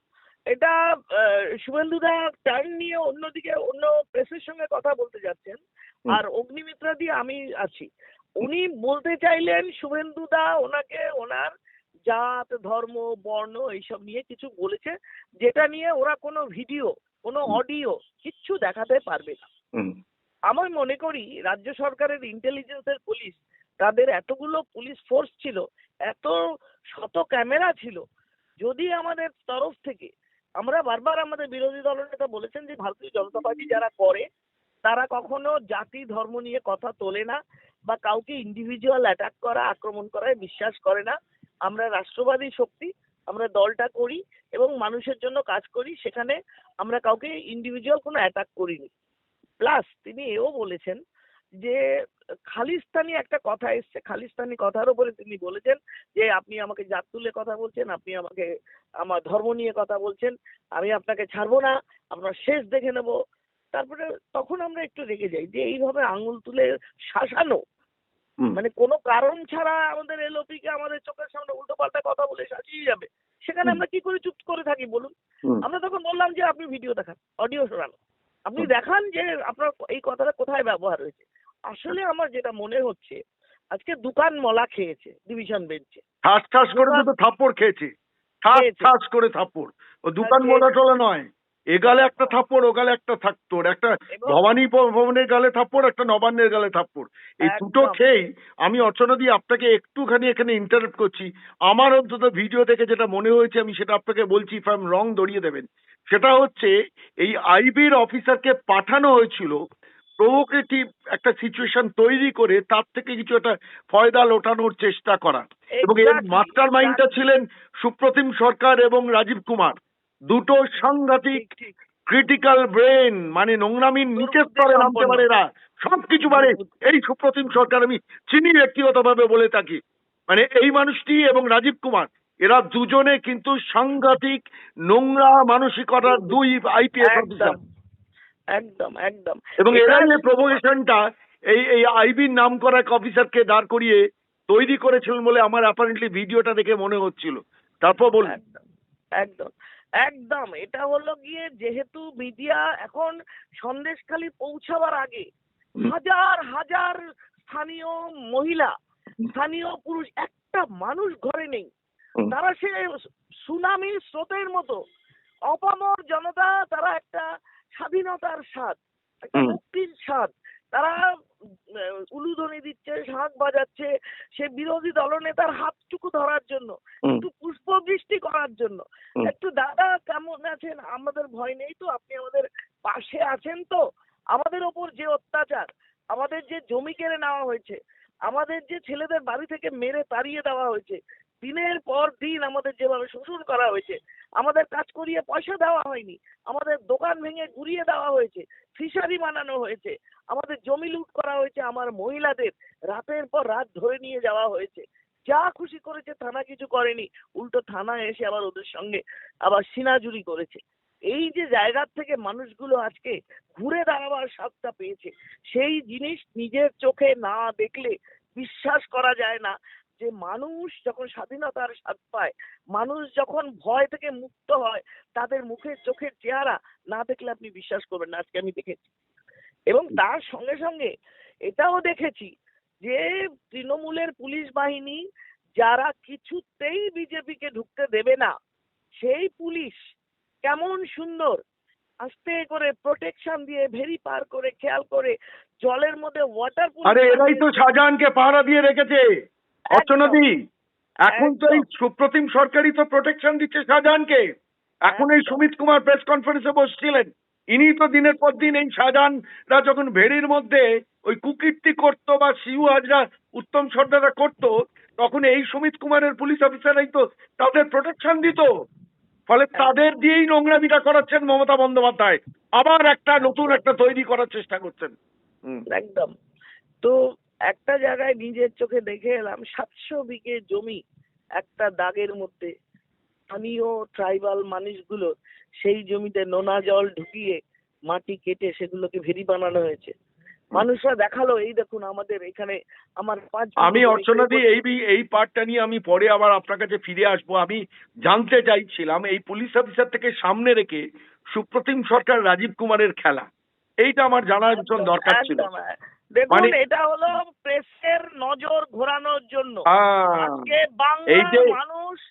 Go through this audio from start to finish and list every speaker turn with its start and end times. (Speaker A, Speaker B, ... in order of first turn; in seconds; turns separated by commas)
Speaker A: 0.5-7.9, Speaker A: 8.4-11.5, Speaker A: 12.1-19.5, Speaker A: 20.5-26.4, Speaker A: 26.9-28.0, Speaker A: 28.6-34.2, Speaker B: 33.3-33.6, Speaker A: 34.8-41.1, Speaker A: 41.7-48.9, Speaker A: 49.6-51.0, Speaker A: 52.5-58.5, Speaker A: 59.0-63.1, Speaker A: 63.7-67.6, Speaker A: 68.5-75.1, Speaker A: 75.6-83.2, Speaker A: 83.7-86.0, Speaker B: 86.2-87.9, Speaker A: 86.7-87.1, Speaker B: 88.4-106.7, Speaker A: 88.5-88.9, Speaker A: 90.2-90.7, Speaker A: 94.1-94.5, Speaker A: 97.4-98.0, Speaker B: 107.2-109.6, Speaker B: 110.2-119.8, Speaker A: 115.8-117.2, Speaker B: 120.3-121.4, Speaker A: 120.8-121.7, Speaker B: 122.1-129.8, Speaker A: 124.2-125.2, Speaker A: 126.3-126.7, Speaker B: 130.3-134.4, Speaker B: 134.9-137.6, Speaker A: 136.1-136.4, Speaker A: 137.0-137.6, Speaker A: 138.6-140.6, Speaker B: 139.6-141.0, Speaker B: 141.5-144.0, Speaker B: 144.5-148.3, Speaker A: 148.2-148.6, Speaker A: 149.2-149.5, Speaker A: 150.0-155.2, Speaker A: 155.8-158.7, Speaker A: 159.3-161.7, Speaker A: 162.3-162.7, Speaker A: 163.4-164.8, Speaker A: 165.5-167.2, Speaker A: 167.8-171.0, Speaker A: 172.1-183.8, Speaker A: 184.3-187.8, Speaker A: 188.3-228.9, Speaker A: 229.7-230.9, Speaker A: 231.5-232.3, Speaker A: 232.8-235.0, Speaker A: 235.6-238.3, Speaker A: 239.0-239.8, Speaker A: 240.4-241.4, Speaker A: 242.0-245.1, Speaker A: 245.6-247.5, Speaker B: 246.9-249.0, Speaker A: 249.7-250.2, Speaker B: 249.7-250.3, Speaker B: 251.1-254.2, Speaker A: 251.1-251.7, Speaker A: 254.9-255.4, Speaker B: 254.9-268.4, Speaker B: 269.3-274.9, Speaker A: 273.2-273.6, Speaker A: 275.7-276.1, Speaker A: 277.5-280.8, Speaker A: 281.4-282.5, Speaker A: 283.3-285.1, Speaker A: 285.6-287.4, Speaker A: 287.9-289.9, Speaker A: 290.5-294.6, Speaker B: 293.6-300.8, Speaker B: 301.3-303.3, Speaker B: 303.8-305.5, Speaker A: 304.5-309.6, Speaker B: 309.7-310.5, Speaker A: 310.2-311.9, Speaker B: 311.1-311.5